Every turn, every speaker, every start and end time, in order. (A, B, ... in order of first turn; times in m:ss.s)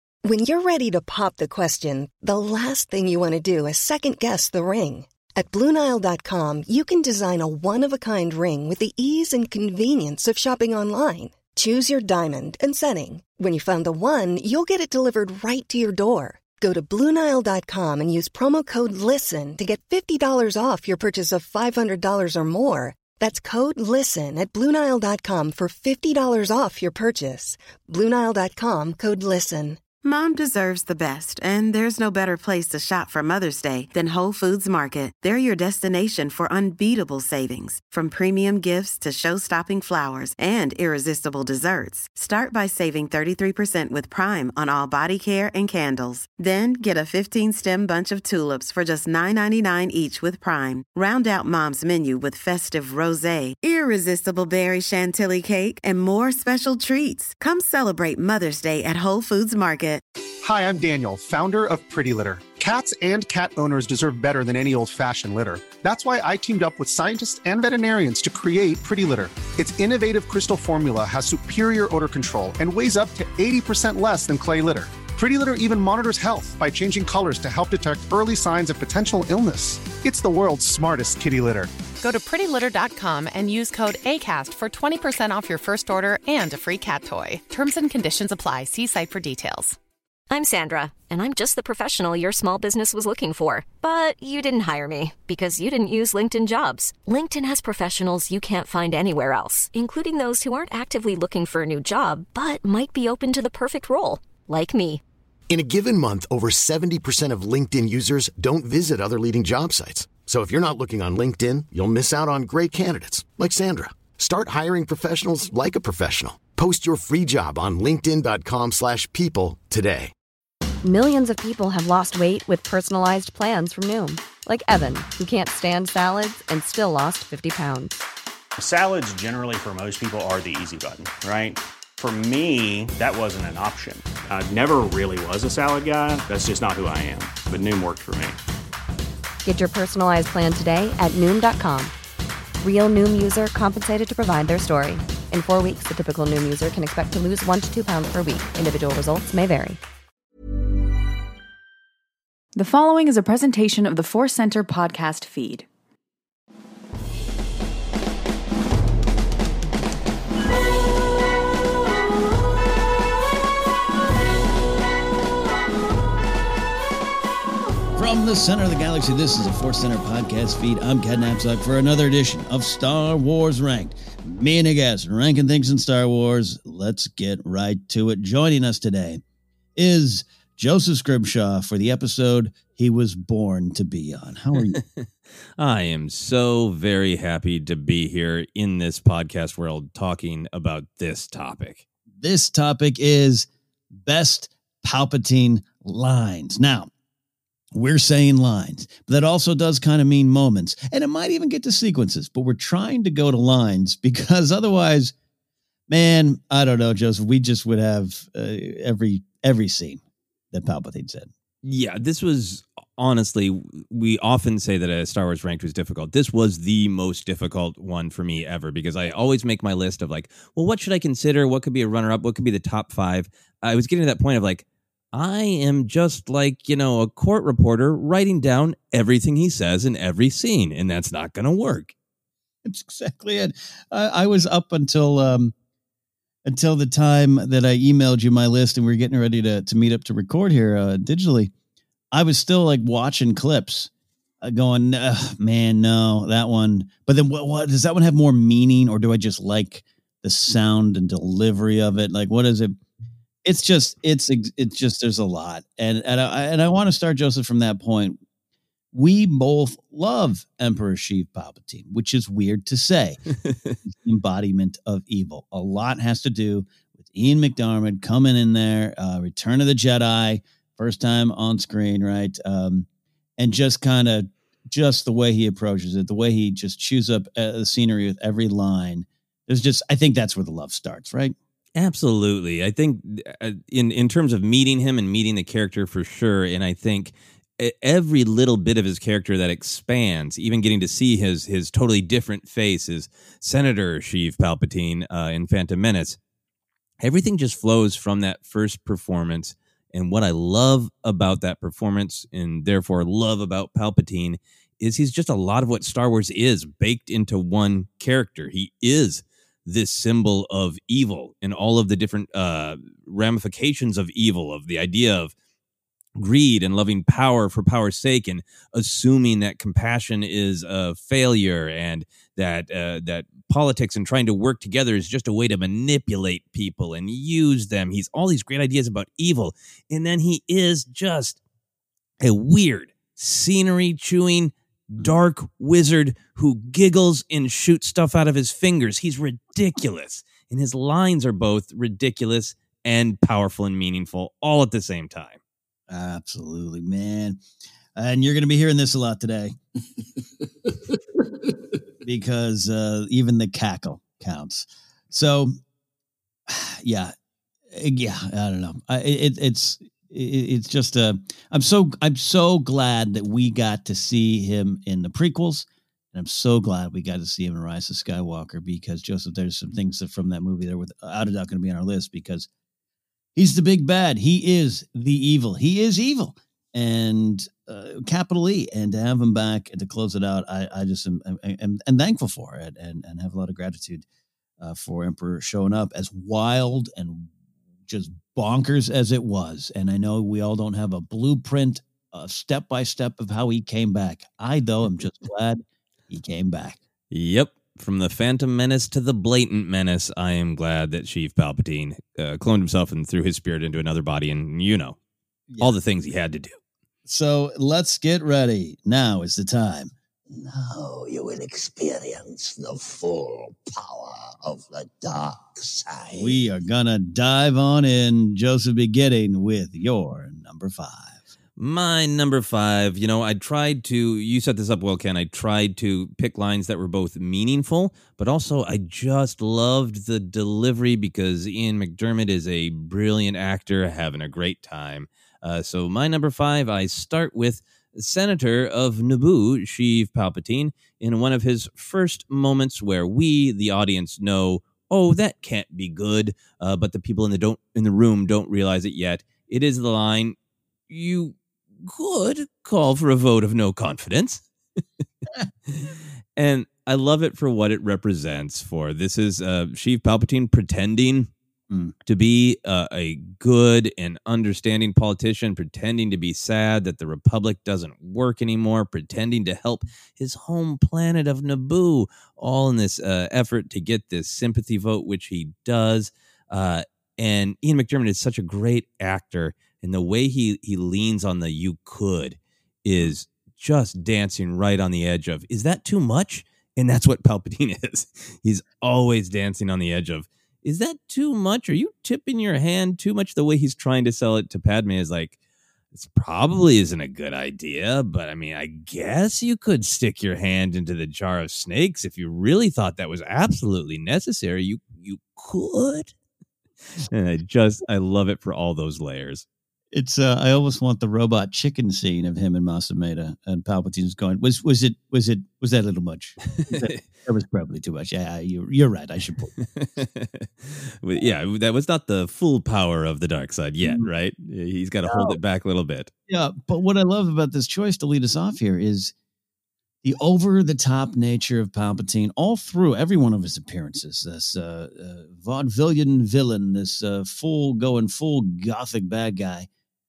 0:00.2-0:29.8 A
0:30.0-1:00.0 B
1:00.4-1:21.7 C
1:22.0-1:29.8 D
1:30.3-1:45.0 E
1:45.5-2:00.1 F
2:00.8-2:08.0 G
2:08.6-2:18.4 H
2:19.4-2:21.9 G
2:22.6-2:29.8 G
2:32.5-2:35.7 I
2:48.0-2:59.2 J
2:59.8-3:04.8 J
3:05.6-3:11.8 K
3:12.2-3:16.9 J
3:17.7-3:25.1 J
3:25.9-3:30.0 J
3:30.5-3:31.3 J
3:31.6-3:51.9 K
3:52.6-3:55.5 J
3:56.4-4:01.5 J
4:02.1-4:03.9 J
4:04.4-4:12.8 J
4:13.4-4:18.2 J
4:18.9-4:23.2 J
4:23.4-4:23.8 K
4:23.8-4:32.8 J
4:33.4-4:41.3 J
4:41.8-4:56.2 K
4:57.0-5:15.3 K
5:16.2-5:31.4 K
5:32.2-5:45.4 K
5:45.9-5:47.4 J
5:47.9-5:49.6 J
5:52.0-5:55.6 J
5:56.5-5:57.1 J
5:57.7-6:12.5 J
6:13.4-6:24.0 J
6:24.6-6:27.3 J
6:27.9-6:36.8 J
6:37.1-6:45.0 K
6:45.5-6:45.8 J
6:45.6-6:46.6 K
6:47.0-6:49.9 J
6:50.6-6:56.3 L
6:56.1-7:01.2 J
7:01.6-7:30.4 K
7:30.9-7:34.4 K
7:35.7-7:41.3 K
7:42.0-8:15.4 K
8:15.9-8:26.1 K
8:27.0-8:29.4 K
8:29.9-8:39.5 J
8:36.6-8:37.0 K
8:39.7-8:46.1 K
8:43.8-8:44.1 J
8:45.0-8:45.4 J
8:46.3-8:49.1 J
8:50.0-8:59.7 J